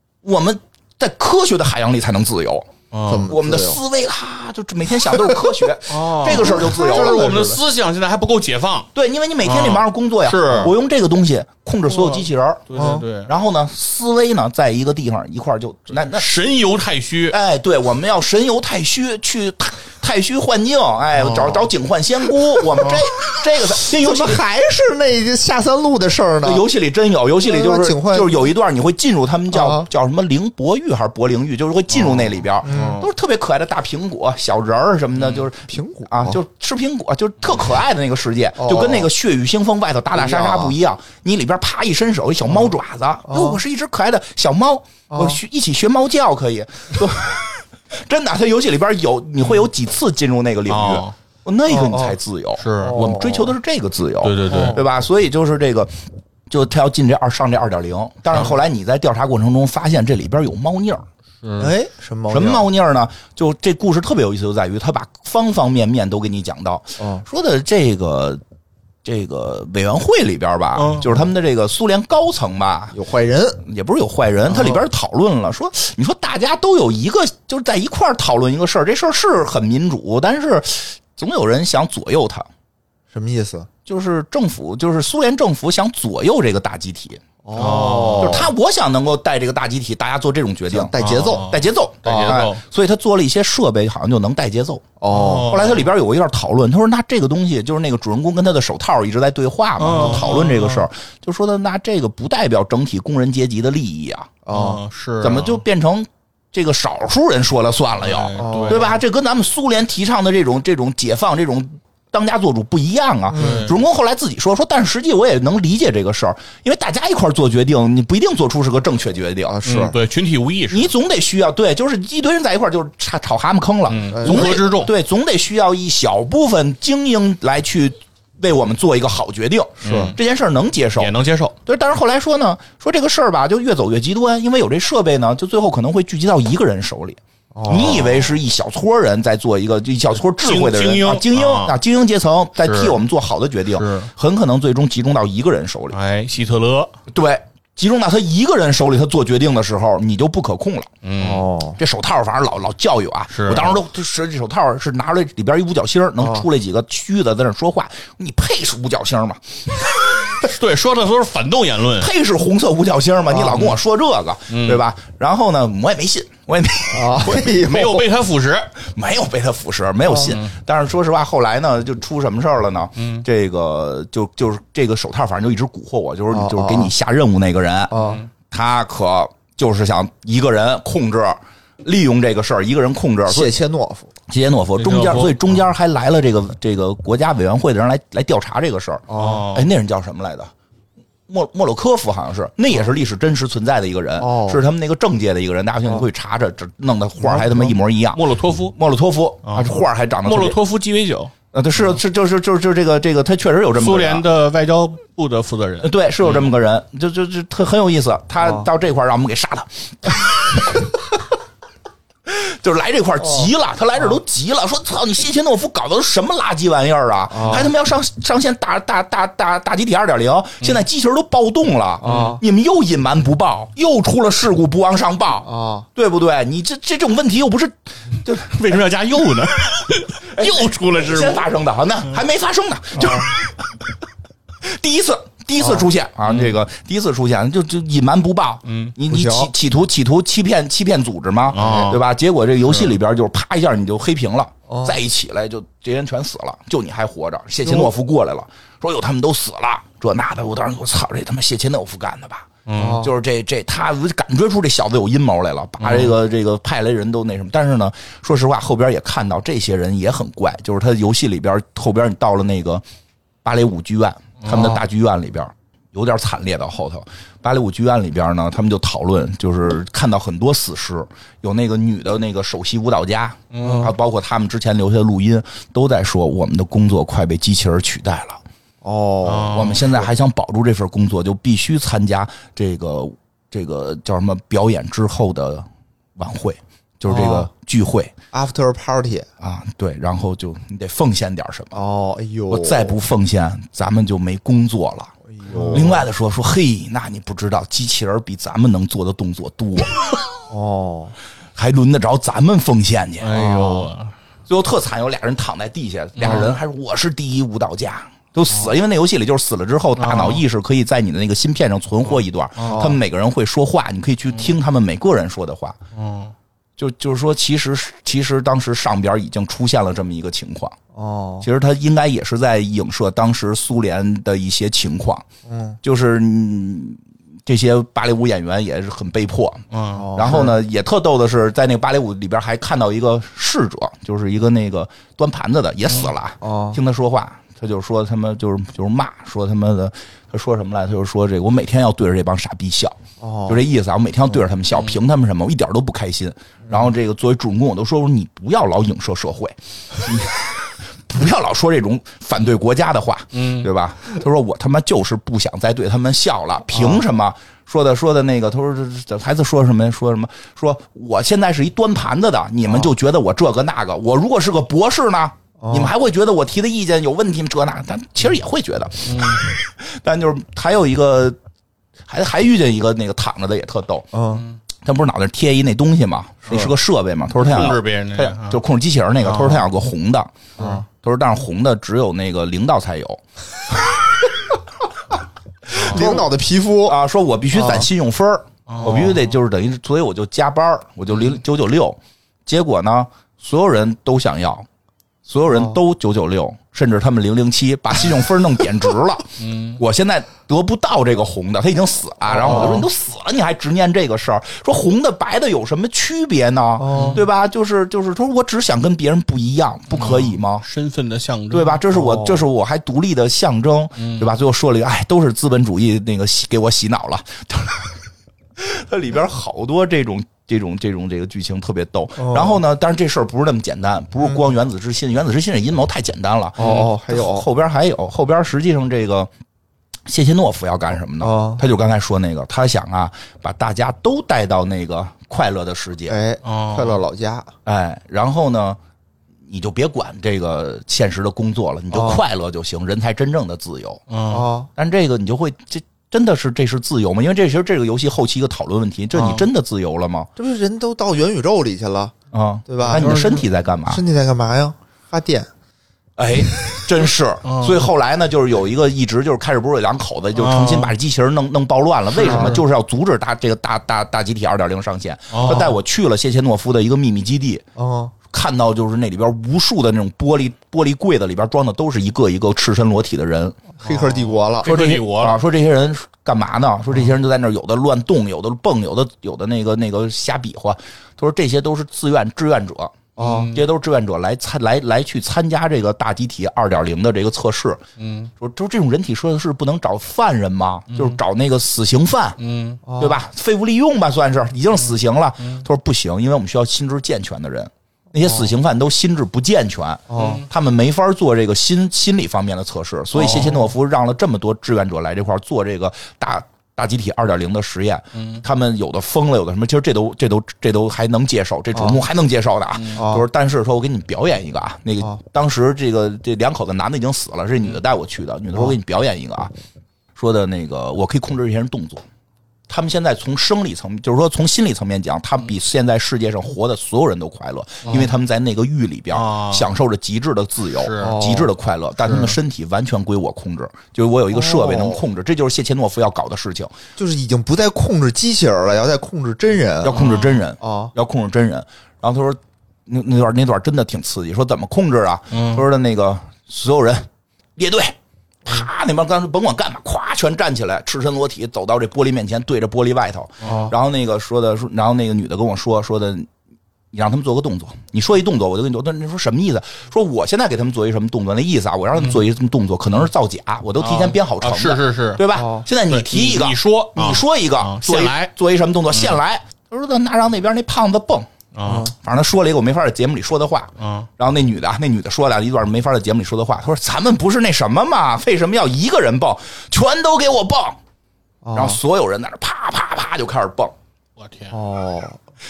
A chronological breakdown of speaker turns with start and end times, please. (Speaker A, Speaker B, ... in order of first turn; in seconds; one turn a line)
Speaker A: 0.2-2.7
Speaker B: 2.9-3.3
Speaker C: 3.1-3.8
Speaker A: 3.3-7.5
Speaker B: 5.9-8.9
Speaker C: 6.2-7.6
Speaker A: 8.9-12.7
Speaker B: 9.4-10.7
Speaker B: 11.9-13.3
Speaker C: 12.7-13.1
Speaker A: 13.3-16.3
Speaker B: 16.0-17.4
Speaker A: 17.3-24.4
Speaker B: 21.2-21.7
Speaker C: 23.8-26.6
Speaker A: 26.4-55.9
Speaker C: 27.5-28.5
Speaker C: 29.5-29.9
Speaker B: 32.0-33.1
Speaker C: 32.6-33.0
Speaker C: 35.7-36.4
Speaker C: 38.6-39.1
Speaker C: 40.2-40.8
Speaker C: 43.3-43.6
Speaker C: 45.1-45.4
Speaker B: 50.7-51.1
Speaker C: 51.7-52.2
Speaker B: 52.6-53.0
Speaker C: 52.8-53.5
Speaker B: 54.2-54.8
Speaker C: 54.5-54.8
Speaker A: 56.5-61.0
Speaker B: 61.4-61.7
Speaker C: 61.6-62.7
Speaker A: 62.3-68.4
Speaker C: 67.0-67.2
Speaker A: 69.0-73.0
Speaker B: 70.8-71.1
Speaker C: 72.9-73.6
Speaker A: 73.6-82.5
Speaker C: 74.5-74.8
Speaker C: 83.1-83.7
Speaker A: 83.9-87.2
Speaker C: 87.5-88.5
Speaker B: 87.5-88.5
Speaker A: 88.2-94.9
Speaker C: 90.7-91.5
Speaker B: 91.0-92.6
Speaker C: 95.0-95.6
Speaker B: 95.1-95.9
Speaker A: 95.5-104.3
Speaker B: 99.8-100.9
Speaker C: 99.9-100.2
Speaker C: 104.5-104.8
Speaker B: 104.5-105.6
Speaker A: 105.2-119.6
Speaker B: 108.0-109.0
Speaker C: 108.4-109.0
Speaker C: 113.3-113.7
Speaker B: 113.3-113.8
Speaker C: 119.5-120.0
Speaker B: 119.6-120.9
Speaker A: 120.7-131.1
Speaker B: 123.9-124.9
Speaker C: 124.1-124.6
Speaker C: 129.8-130.2
Speaker B: 129.8-130.2
Speaker B: 131.0-131.6
Speaker A: 131.7-146.0
Speaker C: 137.5-138.4
Speaker B: 140.4-141.8
Speaker B: 142.6-143.0
Speaker B: 143.7-144.1
Speaker B: 145.9-146.9
Speaker A: 147.1-150.9
Speaker B: 151.0-151.4
Speaker C: 151.2-151.8
Speaker A: 151.8-160.3
Speaker B: 153.3-153.8
Speaker C: 156.2-156.5
Speaker B: 160.2-162.1
Speaker A: 162.0-167.6
Speaker C: 163.3-163.7
Speaker B: 164.5-164.8
Speaker C: 166.9-168.1
Speaker B: 167.3-168.7
Speaker A: 168.8-177.9
Speaker C: 170.1-170.3
Speaker B: 170.2-170.6
Speaker B: 173.0-173.2
Speaker C: 176.3-176.9
Speaker C: 177.9-178.2
Speaker B: 177.9-178.3
Speaker A: 178.5-183.6
Speaker C: 183.3-184.1
Speaker A: 184.3-190.5
Speaker B: 184.8-185.4
Speaker C: 189.1-189.4
Speaker B: 189.1-189.7
Speaker A: 191.3-200.6
Speaker C: 194.2-194.6
Speaker C: 197.2-197.7
Speaker B: 198.1-198.8
Speaker B: 199.4-201.3
Speaker A: 201.5-204.2
Speaker B: 203.8-206.5
Speaker A: 205.8-210.9
Speaker A: 212.3-228.8
Speaker C: 217.3-217.7
Speaker C: 222.0-222.4
Speaker B: 222.0-222.4
Speaker C: 225.4-225.9
Speaker B: 228.4-231.5
Speaker A: 230.2-233.9
Speaker A: 234.6-262.8
Speaker C: 235.6-235.9
Speaker B: 236.3-236.5
Speaker B: 238.7-238.9
Speaker C: 239.1-239.5
Speaker B: 241.5-242.0
Speaker C: 244.7-245.0
Speaker C: 247.7-247.9
Speaker B: 252.7-253.1
Speaker C: 252.8-253.1
Speaker B: 255.8-256.1
Speaker A: 263.4-278.4
Speaker B: 264.4-264.8
Speaker B: 273.5-273.9
Speaker C: 273.6-273.9
Speaker C: 278.8-279.7
Speaker B: 279.2-280.1
Speaker A: 279.5-288.1
Speaker C: 287.1-287.5
Speaker C: 288.3-289.3
Speaker A: 289.4-291.8
Speaker C: 291.7-293.0
Speaker A: 292.5-295.1
Speaker C: 295.3-296.1
Speaker B: 295.5-296.0
Speaker A: 295.7-300.0
Speaker C: 300.5-301.1
Speaker A: 301.6-303.4
Speaker B: 303.2-304.1
Speaker C: 303.3-303.9
Speaker A: 304.5-315.8
Speaker B: 306.2-306.6
Speaker B: 310.0-310.4
Speaker B: 312.6-312.9
Speaker C: 312.6-313.0
Speaker B: 315.9-316.3
Speaker A: 316.8-320.8
Speaker C: 320.9-321.5
Speaker A: 321.4-325.2
Speaker C: 325.5-325.8
Speaker A: 325.8-371.4
Speaker B: 329.7-330.1
Speaker C: 329.9-330.6
Speaker C: 336.4-336.8
Speaker C: 343.2-343.6
Speaker B: 353.3-353.7
Speaker C: 356.7-357.1
Speaker C: 365.6-365.9
Speaker B: 369.1-369.5
Speaker A: 372.1-374.1
Speaker C: 374.1-374.5
Speaker A: 374.8-383.9
Speaker B: 376.5-376.8
Speaker B: 377.4-378.6
Speaker B: 379.2-379.7
Speaker C: 380.6-380.9
Speaker B: 385.7-386.2
Speaker A: 385.7-386.3
Speaker C: 385.8-387.0
Speaker A: 386.9-394.7
Speaker C: 387.5-387.9
Speaker B: 388.7-389.2
Speaker A: 395.3-410.7
Speaker C: 395.5-395.8
Speaker B: 399.4-399.8
Speaker C: 402.3-402.9
Speaker B: 402.4-402.8
Speaker C: 406.8-407.2
Speaker B: 406.9-407.2
Speaker B: 409.9-411.8
Speaker A: 411.5-418.0
Speaker C: 411.9-412.5
Speaker B: 414.0-414.3
Speaker A: 418.6-429.3
Speaker C: 422.2-422.6
Speaker C: 426.6-427.5
Speaker B: 426.6-426.9
Speaker A: 430.1-436.2
Speaker C: 431.2-431.6
Speaker C: 436.1-437.5
Speaker B: 436.4-437.0
Speaker A: 437.7-438.8
Speaker A: 439.5-444.0
Speaker C: 441.9-442.2
Speaker B: 444.1-444.5
Speaker C: 444.3-444.7
Speaker A: 444.8-450.3
Speaker B: 449.1-449.5
Speaker C: 450.4-452.1
Speaker A: 452.3-454.0
Speaker C: 452.7-455.5
Speaker B: 452.8-453.4
Speaker A: 456.2-467.6
Speaker B: 457.4-457.9
Speaker B: 460.4-460.9
Speaker B: 462.1-462.6
Speaker C: 462.2-462.6
Speaker B: 465.3-465.7
Speaker C: 465.4-465.7
Speaker C: 467.8-468.1
Speaker A: 468.3-473.6
Speaker C: 473.8-474.7
Speaker B: 473.8-475.4
Speaker A: 474.6-487.8
Speaker C: 483.2-483.5
Speaker B: 483.2-483.6
Speaker B: 488.0-488.3
Speaker A: 488.4-492.4
Speaker B: 490.9-491.2
Speaker B: 492.4-492.8
Speaker C: 492.9-493.2
Speaker A: 493.0-519.5
Speaker C: 498.2-498.5
Speaker C: 500.1-500.4
Speaker B: 500.1-500.5
Speaker C: 503.1-503.7
Speaker B: 508.1-508.4
Speaker C: 511.8-512.0
Speaker B: 512.7-513.0
Speaker C: 513.0-513.3
Speaker A: 520.2-522.0
Speaker A: 522.7-536.7
Speaker B: 527.8-528.1
Speaker B: 529.1-529.7
Speaker B: 530.8-531.2
Speaker C: 531.0-531.5
Speaker B: 532.0-532.4
Speaker C: 534.3-535.0
Speaker C: 537.0-540.0
Speaker A: 539.8-556.3
Speaker B: 539.9-540.4
Speaker C: 540.6-540.9
Speaker B: 545.3-545.6
Speaker B: 553.4-553.7
Speaker A: 556.9-571.3
Speaker B: 563.8-565.2
Speaker C: 565.3-565.6
Speaker B: 565.9-568.3
Speaker B: 568.9-569.2
Speaker B: 571.5-571.9
Speaker C: 571.6-571.9
Speaker A: 572.0-580.8
Speaker B: 573.8-574.1
Speaker C: 581.4-581.8
Speaker A: 581.5-583.8
Speaker B: 584.2-584.5
Speaker C: 584.5-585.2